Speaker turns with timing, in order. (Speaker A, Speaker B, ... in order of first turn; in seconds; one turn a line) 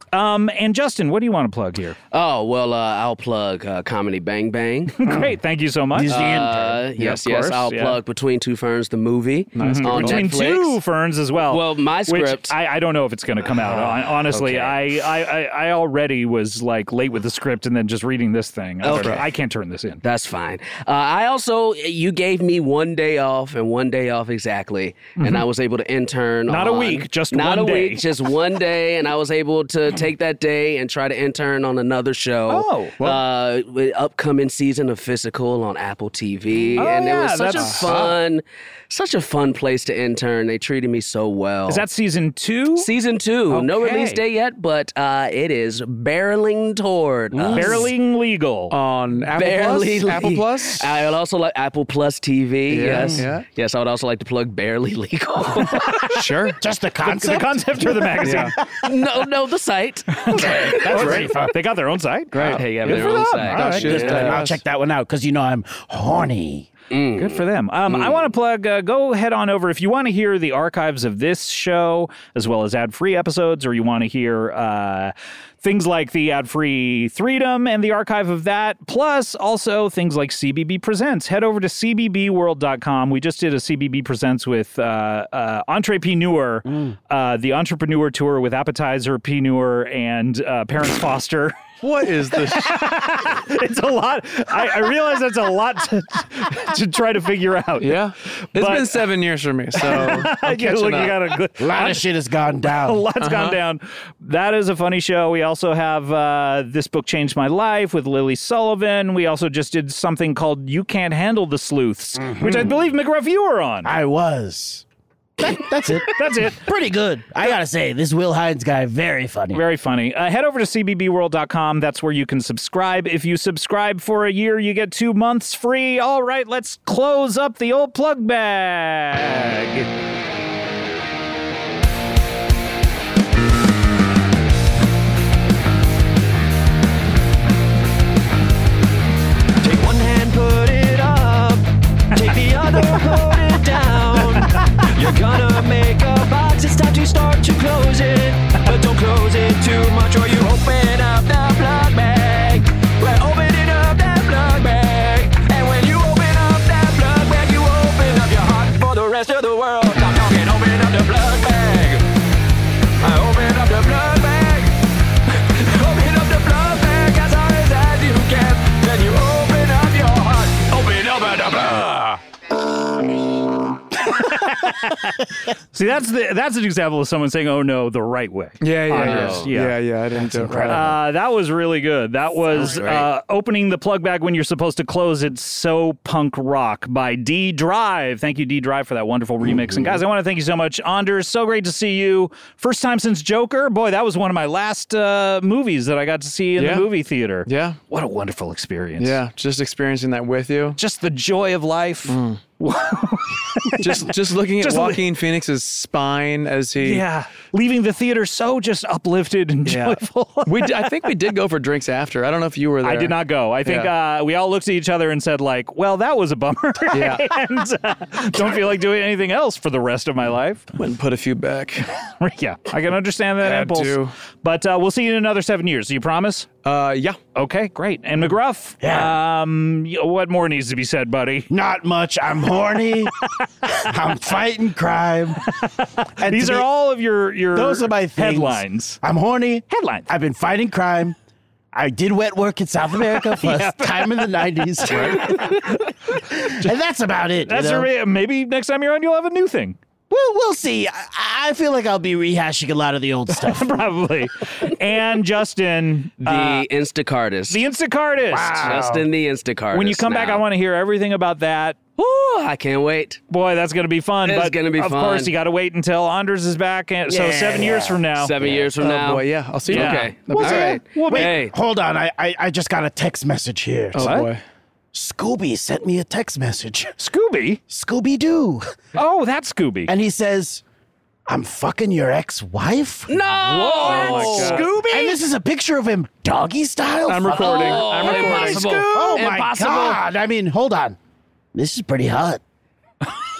Speaker A: 0.1-1.9
Speaker B: 2.1-5.0
Speaker A: 5.0-6.4
Speaker C: 5.9-6.8
Speaker B: 6.1-10.8
Speaker A: 7.0-8.0
Speaker D: 9.5-10.3
Speaker A: 9.6-20.0
Speaker B: 11.4-12.5
Speaker B: 13.5-14.8
Speaker B: 18.8-19.2
Speaker D: 19.0-19.2
Speaker B: 20.0-41.8
Speaker A: 25.2-25.4
Speaker A: 26.5-28.1
Speaker A: 32.5-32.9
Speaker A: 36.8-38.1
Speaker D: 37.6-37.9
Speaker A: 41.7-42.9
Speaker B: 42.7-47.9
Speaker A: 43.5-44.2
Speaker C: 47.4-47.9
Speaker A: 47.5-48.7
Speaker D: 48.7-50.9
Speaker B: 49.3-56.0
Speaker D: 52.7-53.4
Speaker C: 52.8-53.2
Speaker A: 55.7-56.2
Speaker D: 56.1-56.6
Speaker C: 56.6-58.9
Speaker A: 57.0-58.5
Speaker D: 58.2-58.5
Speaker B: 58.8-61.2
Speaker C: 60.3-61.6
Speaker D: 60.3-61.3
Speaker A: 60.3-63.9
Speaker D: 62.3-64.6
Speaker B: 62.5-64.4
Speaker C: 62.9-66.7
Speaker B: 66.9-68.2
Speaker A: 67.2-91.6
Speaker D: 91.8-92.8
Speaker A: 92.5-98.0
Speaker D: 97.8-101.3
Speaker A: 98.5-99.1
Speaker A: 99.7-102.0
Speaker C: 101.6-103.0
Speaker A: 102.7-113.9
Speaker D: 103.2-103.6
Speaker C: 112.2-112.8
Speaker C: 113.8-114.8
Speaker C: 115.4-119.6
Speaker A: 116.1-116.7
Speaker A: 119.5-129.9
Speaker E: 139.6-162.0
Speaker A: 142.8-143.2
Speaker A: 144.3-144.6
Speaker E: 163.0-164.7
Speaker E: 165.5-172.2
Speaker A: 174.1-175.1
Speaker A: 175.7-179.8
Speaker D: 178.6-180.8
Speaker B: 179.0-179.5
Speaker C: 180.1-181.0
Speaker A: 180.7-199.2
Speaker B: 182.5-183.1
Speaker D: 196.6-196.9
Speaker D: 197.4-197.8
Speaker D: 199.0-200.8
Speaker A: 200.8-205.0
Speaker D: 202.1-202.4
Speaker D: 203.8-207.0
Speaker A: 206.8-211.2
Speaker D: 209.6-213.9
Speaker A: 212.8-220.7
Speaker D: 216.9-217.3
Speaker D: 220.7-221.9
Speaker A: 222.2-226.5
Speaker D: 223.4-224.1
Speaker D: 226.6-227.2
Speaker A: 227.3-231.5
Speaker C: 228.8-229.2
Speaker C: 231.5-233.1
Speaker C: 233.7-235.5
Speaker A: 235.6-239.0
Speaker C: 236.2-236.7
Speaker C: 237.5-241.2
Speaker A: 239.7-240.1
Speaker C: 241.7-247.9
Speaker A: 243.0-246.6
Speaker A: 247.4-249.8
Speaker C: 250.1-253.7
Speaker A: 253.3-256.6
Speaker B: 256.2-257.7
Speaker A: 257.5-258.9
Speaker C: 258.3-259.1
Speaker B: 258.6-260.4
Speaker A: 259.7-261.8
Speaker B: 262.0-263.2
Speaker A: 263.3-268.3
Speaker B: 264.2-265.3
Speaker C: 267.1-268.7
Speaker B: 267.6-271.5
Speaker D: 268.8-270.8
Speaker A: 269.7-271.3
Speaker C: 271.0-274.2
Speaker D: 273.9-274.4
Speaker A: 274.0-274.3
Speaker C: 274.9-276.9
Speaker A: 277.0-277.6
Speaker C: 277.7-278.7
Speaker A: 278.9-279.9
Speaker C: 279.9-280.6
Speaker C: 281.3-283.2
Speaker B: 283.1-285.1
Speaker A: 283.4-285.2
Speaker D: 283.8-284.7
Speaker C: 284.8-288.0
Speaker D: 287.1-288.8
Speaker B: 287.3-290.0
Speaker A: 288.0-289.2
Speaker C: 288.8-291.0
Speaker C: 291.5-292.4